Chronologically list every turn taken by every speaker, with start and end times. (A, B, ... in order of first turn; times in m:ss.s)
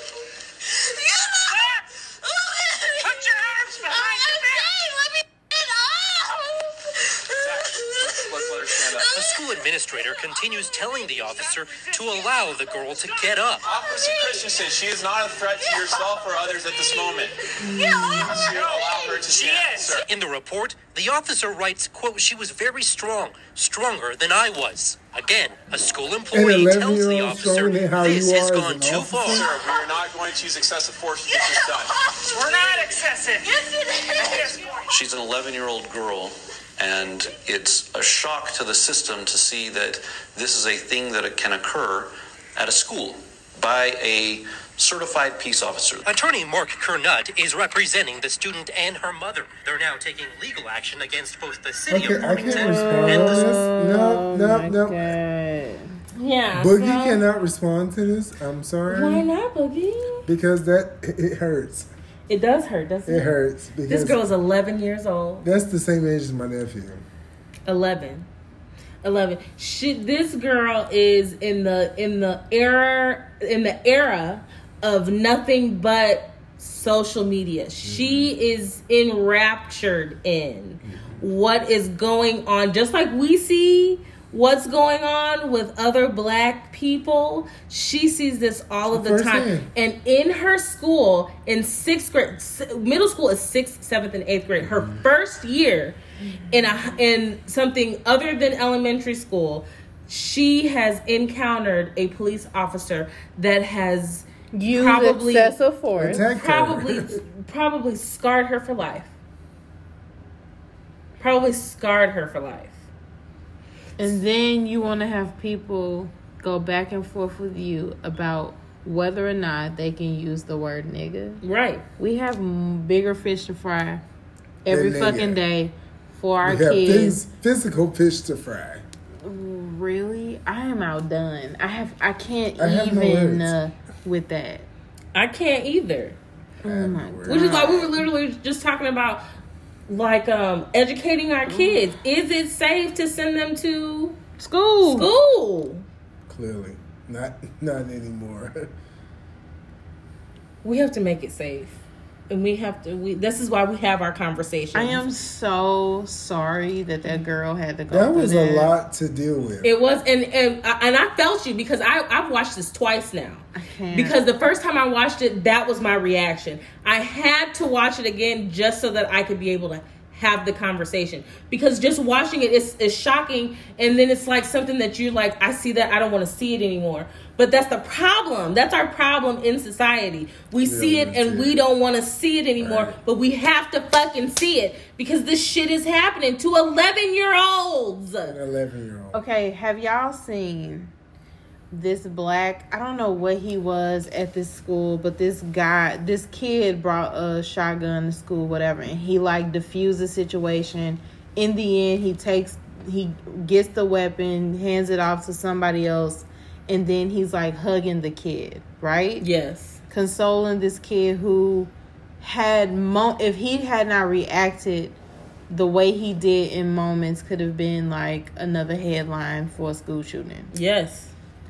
0:01.3-0:01.8 A
0:03.0-0:04.8 A
0:07.4-0:09.2 B
0:09.1-0:13.7 C
0:11.3-0:13.4 A
0:13.7-0:17.3 B
0:17.6-0:18.5 D
0:17.9-0:20.0 A
0:18.1-0:20.0 B
0:19.4-0:29.5 C
0:26.3-0:29.5 E
0:29.4-0:31.9 B
0:32.2-0:35.0 A
0:34.9-0:46.0 F
0:46.0-0:53.2 C
0:51.9-0:55.1 E
0:52.1-0:55.9 D
0:56.2-0:57.2 G
0:56.6-0:59.3 E
0:58.9-1:00.3 G
1:00.3-1:01.9 E
1:02.3-1:03.3 G
1:03.1-1:04.2 E
1:03.9-1:05.5 G
1:05.4-1:07.0 E
1:07.7-1:08.3 G
1:09.0-1:36.0 G
1:17.8-1:18.3 E
1:20.8-1:21.3 E
1:28.9-1:29.7 E
1:34.6-1:35.0 E
1:36.5-1:45.5 G
1:36.5-1:36.9 D
1:44.5-1:46.3 D
1:46.0-1:47.2 E
1:46.3-1:49.1 G
1:51.2-1:52.8 G
1:54.0-2:01.4 D
2:01.4-2:01.8 G
2:02.0-2:04.0 D
2:04.6-2:07.2 D
2:04.7-2:05.4 E
2:06.4-2:08.9 E
2:09.2-2:14.7 D
2:12.6-2:13.6 E
2:15.1-2:16.2 G
2:16.6-2:17.9 D
2:16.6-2:17.7 E
2:17.3-2:19.2 G
2:19.9-2:24.2 G
2:21.5-2:21.9 D
2:24.4-2:25.1 D
2:24.8-2:25.8 G
2:26.3-2:28.7 E
2:30.6-2:35.0 G
2:34.7-2:38.7 D
2:37.9-2:39.7 E
2:39.6-3:08.4 G
2:43.6-2:44.2 D
3:00.6-3:01.6 E
3:02.6-3:03.0 E
3:08.2-3:09.2 E
3:09.1-3:10.9 D
3:11.7-3:29.2 D
3:29.2-3:29.8 G
3:29.9-3:35.0 D
3:35.5-3:40.5 D
3:40.5-3:41.1 G